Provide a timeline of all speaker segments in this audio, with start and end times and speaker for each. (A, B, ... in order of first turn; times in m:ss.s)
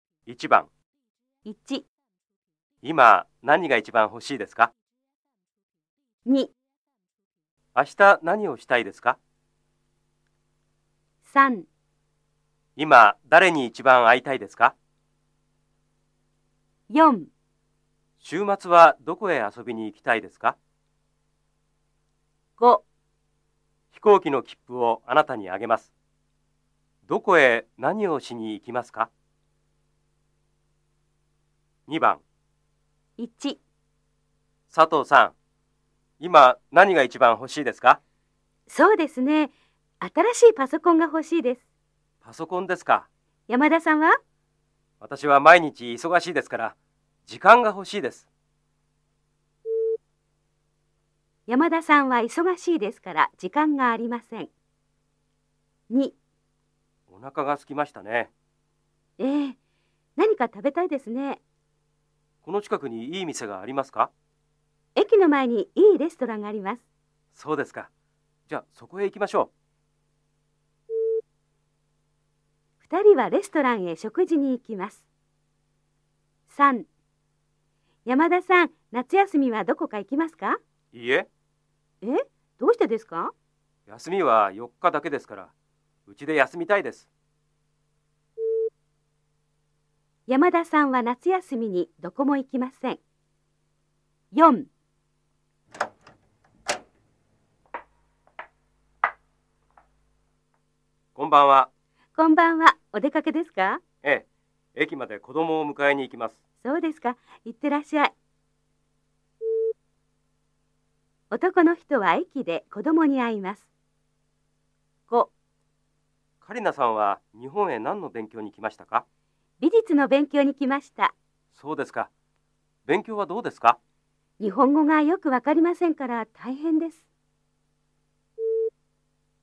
0:00.3-0:00.7 A
0:01.4-0:01.9 B
0:02.8-0:04.7 A
0:06.2-0:06.5 B
0:07.8-0:09.2 A
0:11.2-0:11.7 B
0:12.8-0:14.8 A
0:16.9-0:17.3 B
0:18.2-0:20.6 A
0:22.6-0:22.8 B
0:23.9-0:25.9 A
0:27.1-0:29.1 A
0:31.9-0:32.2 A
0:33.2-0:33.6 B
0:34.7-0:35.3 A
0:36.2-0:38.0 A
0:38.7-0:41.6 B
0:42.2-0:43.1 A
0:43.5-0:44.2 B
0:45.0-0:48.3 A
0:51.5-0:54.5 B
0:55.9-0:56.2 B
0:57.1-0:58.3 A
0:59.2-0:59.6 B
1:00.2-1:01.4 B
1:02.4-1:04.1 A
1:05.0-1:06.8 B
1:07.3-1:07.9 A
1:08.5-1:09.5 A
1:12.8-1:15.1 B
1:16.5-1:16.9 B
1:18.0-1:20.6 B
1:20.9-1:21.3 A
1:22.0-1:23.3 B
1:23.9-1:25.5 A
1:26.1-1:27.1 A
1:30.3-1:33.0 B
1:34.3-1:34.7 B
1:41.2-1:41.7 A
1:42.2-1:43.8 B
1:44.0-1:46.4 A
1:46.6-1:48.1 B
1:51.3-1:53.7 B
1:56.4-1:59.0 A
1:59.6-2:01.1 B
2:01.5-2:02.1 A
2:02.9-2:03.8 A
2:04.4-2:07.1 B